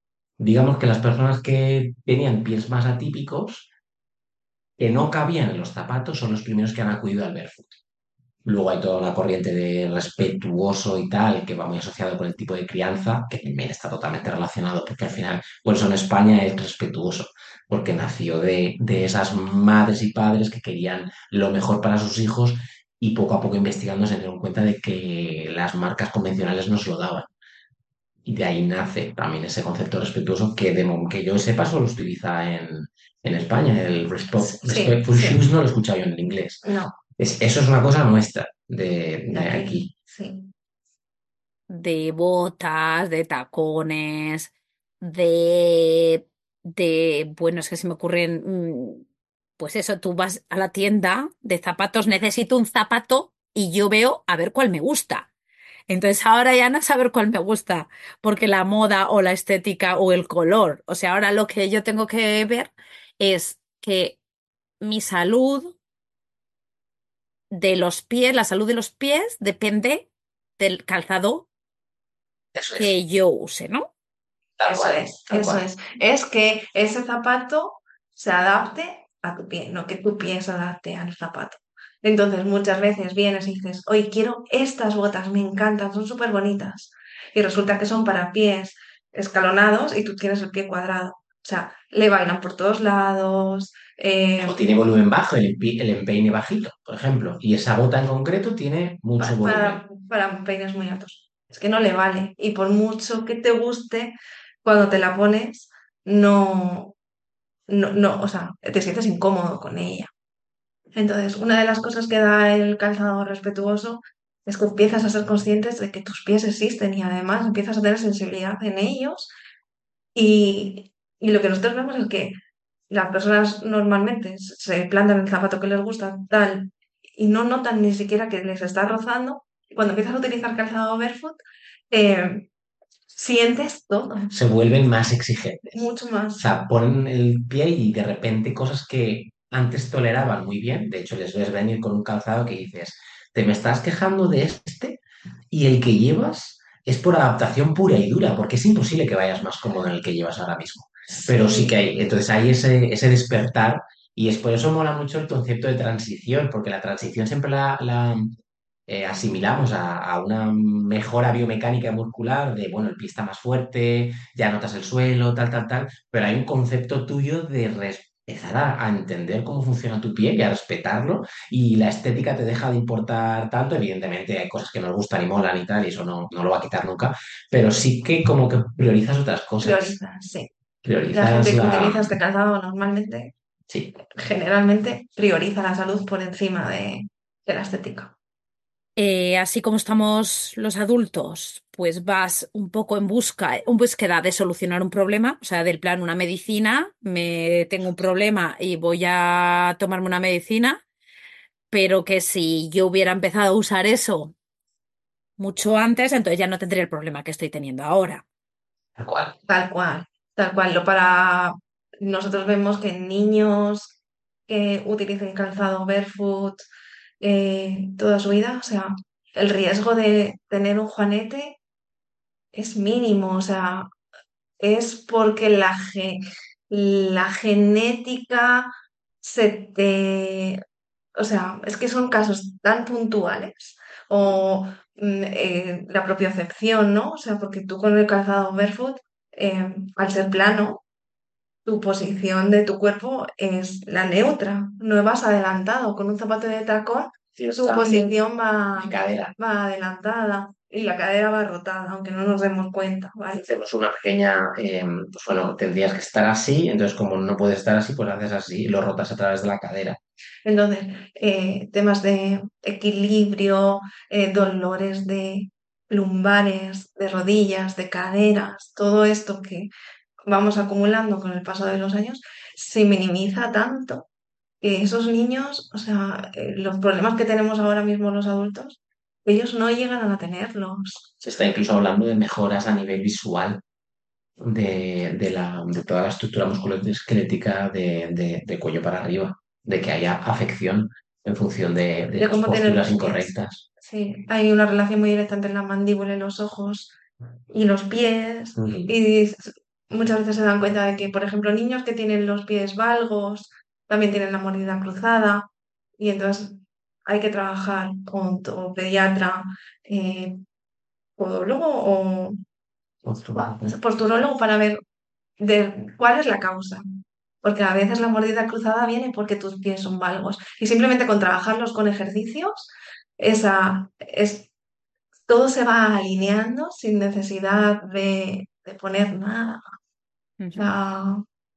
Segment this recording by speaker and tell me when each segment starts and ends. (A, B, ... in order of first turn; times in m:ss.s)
0:00.4-0:03.7 A
0:04.8-0:07.8 A
0:08.4-0:27.3 A
0:28.2-0:36.6 A
0:34.6-0:35.4 B
0:36.6-0:36.9 B
0:37.2-0:39.9 A
0:39.3-0:40.5 B
0:41.7-0:44.5 C
0:45.0-0:49.0 C
0:49.6-0:55.3 C
0:55.9-1:04.2 C
1:04.8-1:05.8 C
1:07.5-1:11.5 C
1:12.5-1:12.9 A
1:12.8-1:13.9 C
1:14.6-1:15.6 A
1:14.7-1:34.6 B
1:34.4-1:39.8 A
1:39.2-1:46.9 B
1:47.7-1:50.1 B
1:50.9-1:59.3 B
2:00.1-2:02.4 B
2:02.9-2:12.5 B
2:13.1-2:14.3 B
2:14.3-2:15.8 A
2:15.7-2:16.5 B
2:16.4-2:38.3 A
2:31.2-2:31.8 B
2:38.9-3:00.0 A
2:59.6-3:00.5 B
3:00.8-3:02.1 A
3:01.1-3:03.3 B
3:04.1-3:08.1 B
3:09.0-3:20.8 C
3:21.7-3:24.3 C
3:25.4-3:28.2 C
3:29.0-3:29.3 A
3:29.5-3:33.9 B
3:34.5-3:36.6 B
3:37.2-3:41.6 B
3:42.5-3:43.9 B
3:44.6-3:48.7 B
3:49.2-3:50.6 B
3:51.2-4:00.8 B
4:01.6-4:13.4 B
4:07.4-4:08.1 A
4:08.7-4:09.3 A
4:13.4-4:20.0 A
4:20.4-4:29.7 B
4:30.3-4:34.1 B
4:34.6-4:41.1 B
4:41.2-4:43.6 A
4:44.4-4:53.6 A
4:52.2-4:56.9 B
4:57.5-5:05.5 B
4:58.6-4:58.9 A
5:06.0-5:10.4 B
5:11.2-5:12.4 B
5:13.0-5:13.7 A
5:13.4-5:14.8 B
5:15.4-5:16.8 B
5:17.4-5:24.5 B
5:25.3-5:29.6 B
5:30.4-5:30.7 C
5:30.5-5:31.2 B